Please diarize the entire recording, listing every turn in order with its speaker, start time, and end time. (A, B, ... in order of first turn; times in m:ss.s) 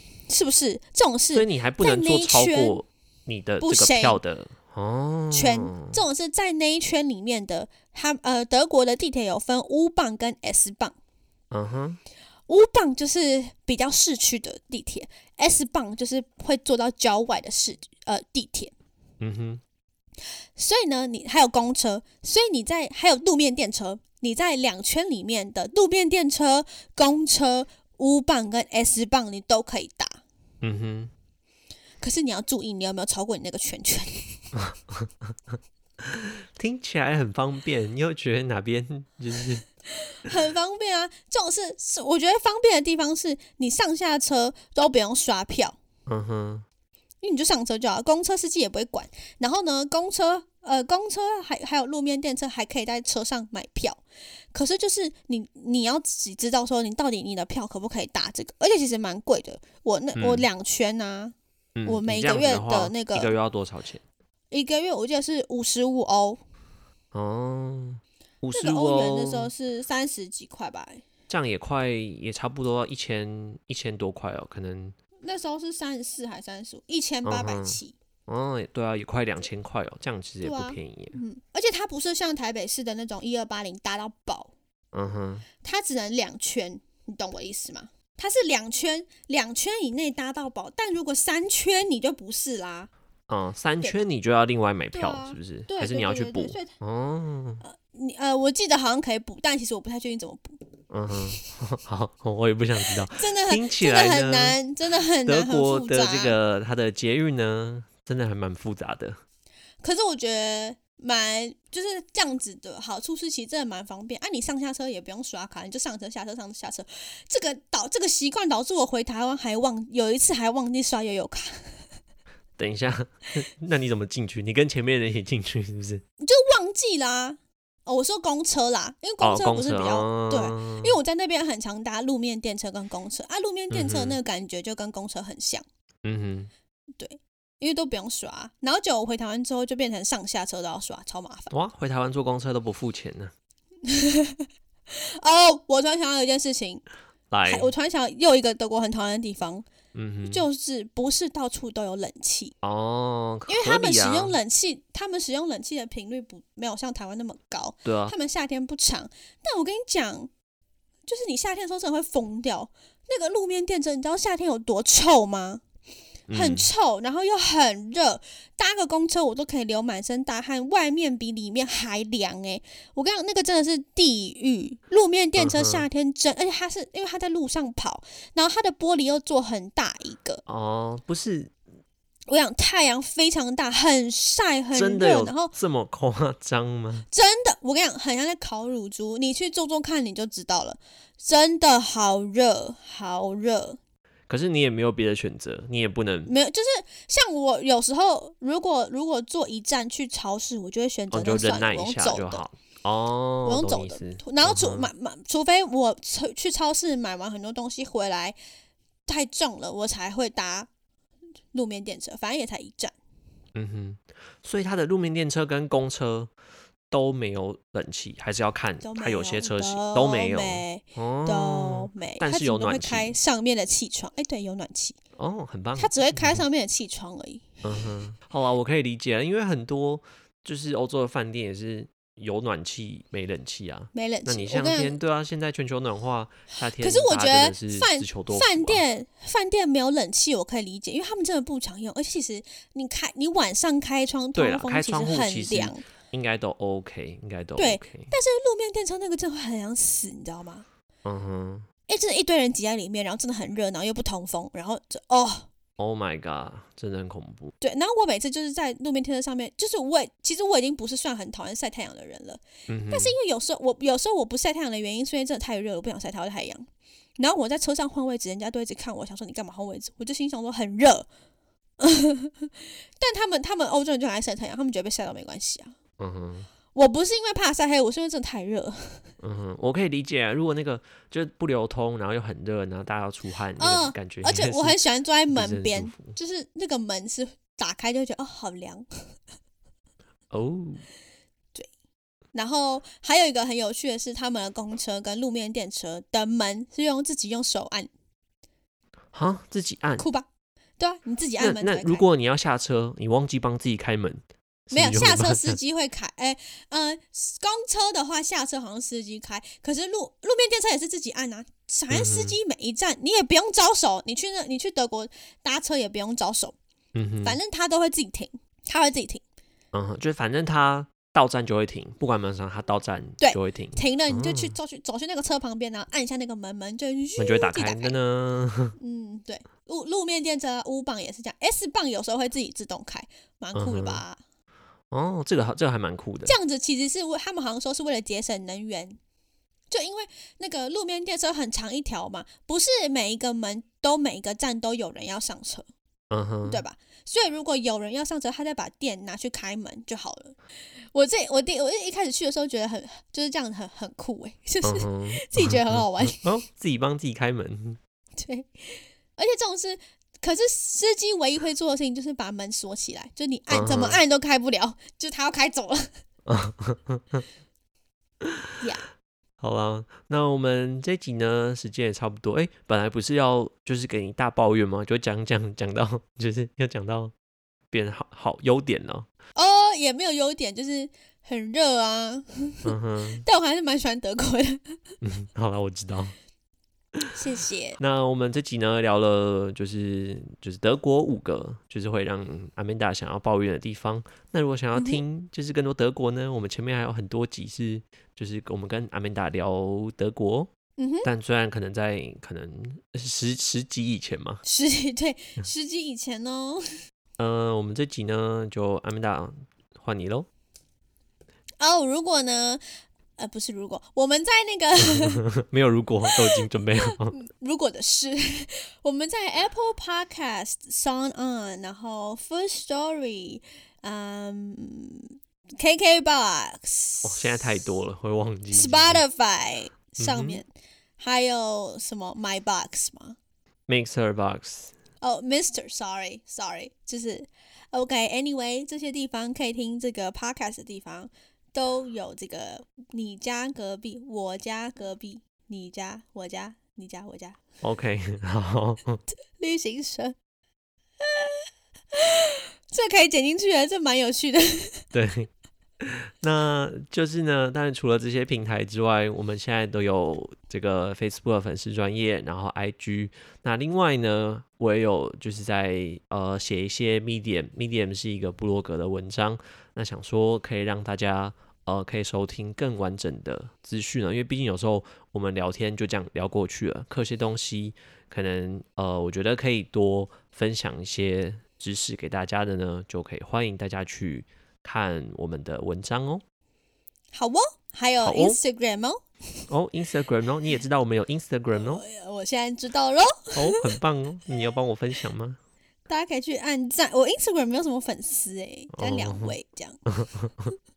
0:00.3-0:02.8 A
0:01.3-0:06.0 B
0:03.6-0:04.2 A
0:05.3-0:11.0 A
0:11.5-0:12.0 B
0:12.5-0:18.7 A
0:19.2-0:19.6 B
0:20.6-0:30.2 A
0:30.6-0:31.1 B
0:32.0-0:34.5 A
0:34.6-0:35.3 B
0:36.0-0:39.6 B
0:40.0-0:45.8 A
0:46.1-0:46.6 B
0:47.2-0:54.0 A
0:54.5-1:01.3 A
1:00.2-1:00.4 B
1:01.8-1:04.0 B
1:01.8-1:03.3 A
1:04.5-1:06.4 A
1:07.1-1:09.5 B
1:08.5-1:11.0 A
1:11.3-1:15.0 B
1:15.2-1:17.9 A
1:17.2-1:21.2 B
1:20.4-1:24.5 A
1:24.9-1:25.4 B
1:25.6-1:32.9 A
1:33.3-1:37.6 B
1:34.9-1:36.7 A
1:37.6-1:40.6 A
1:40.9-1:44.6 B
1:43.1-1:46.4 A
1:45.2-1:49.2 B
1:49.8-2:01.8 A
2:02.6-2:06.0 B
2:06.2-2:15.6 A
2:09.2-2:11.0 B
2:13.7-2:14.2 B
2:16.0-2:16.5 B
2:17.0-2:21.5 A
2:21.5-2:23.3 B
2:23.8-2:26.8 A
2:27.3-2:27.7 B
2:27.4-2:29.6 A
2:29.9-2:30.4 B
2:30.2-2:32.5 A
2:32.6-2:34.4 B
2:33.5-2:40.3 A
2:37.8-2:38.1 B
2:41.1-2:45.6 A
2:46.3-2:46.7 B
2:46.3-3:00.4 A
2:55.4-2:55.8 B
3:00.4-3:01.5 B
3:02.3-3:05.5 A
3:04.7-3:07.1 B
3:07.1-3:13.8 A
3:14.3-3:16.3 B
3:16.2-3:22.4 A
3:21.1-3:24.9 B
3:23.4-3:28.4 A
3:29.0-3:30.7 A
3:31.5-3:32.9 A
3:33.5-3:36.3 B
3:36.9-3:43.1 B
3:38.8-3:45.0 A
3:45.2-3:46.4 B
3:45.8-3:47.8 A
3:47.6-3:58.8 B
3:53.9-3:55.0 A
3:56.8-4:05.8 A
4:04.4-4:08.1 B
4:07.6-4:10.6 A
4:11.0-4:11.7 B
4:11.9-4:15.5 A
4:15.8-4:17.5 B
4:17.6-4:26.7 A
4:22.7-4:23.1 B
4:27.2-4:31.1 A
4:31.8-4:35.7 A
4:36.0-4:36.5 B
4:36.7-4:39.0 A
4:39.2-4:44.8 B
4:43.6-4:48.8 A
4:45.3-4:46.1 B
4:50.3-4:50.8 B
4:52.3-4:57.9 A
4:59.1-5:00.0 B
5:00.0-5:00.2 A
5:00.8-5:02.0 A
5:01.4-5:05.6 B
5:04.7-5:16.6 A
5:11.9-5:12.3 B
5:16.9-5:17.4 B
5:17.2-5:19.2 A
5:19.7-5:24.5 B
5:23.2-5:28.0 A
5:27.2-5:28.8 B
5:28.8-5:34.2 A
5:33.5-5:34.0 B
5:34.9-5:36.3 B
5:36.2-5:39.0 A
5:39.7-5:45.7 A
5:46.1-5:46.6 B
5:46.4-5:50.4 A
5:50.9-5:56.3 A
5:54.6-5:57.8 B
5:58.2-6:05.9 A
6:03.5-6:04.0 B
6:06.2-6:07.2 B
6:08.2-6:08.5 B
6:08.6-6:08.9 A
6:09.4-6:17.1 B
6:17.7-6:19.1 B
6:19.4-6:24.8 A
6:22.6-6:23.2 B
6:25.0-6:26.1 B
6:27.1-6:27.8 A
6:27.8-6:40.5 B
6:34.7-6:35.0 A
6:40.8-6:41.1 A
6:41.0-6:44.4 B
6:44.4-6:46.7 A
6:47.2-6:50.3 B
6:51.6-6:52.6 A
6:53.2-6:55.2 A
6:54.8-6:57.2 B
6:56.1-7:07.6 A
7:07.0-7:09.0 B
7:08.5-7:13.2 A
7:10.0-7:10.4 B
7:13.7-7:14.7 B
7:15.0-7:27.4 A
7:27.6-7:29.0 B
7:29.4-7:30.2 A
7:31.0-7:34.9 A
7:34.9-7:35.3 B
7:35.8-8:06.2 B
8:07.1-8:09.5 A
8:08.0-8:08.4 B
8:09.5-8:11.8 B
8:11.5-8:13.8 A
8:13.4-8:15.4 B
8:15.9-8:19.8 A
8:18.7-8:19.3 B
8:19.9-8:20.5 B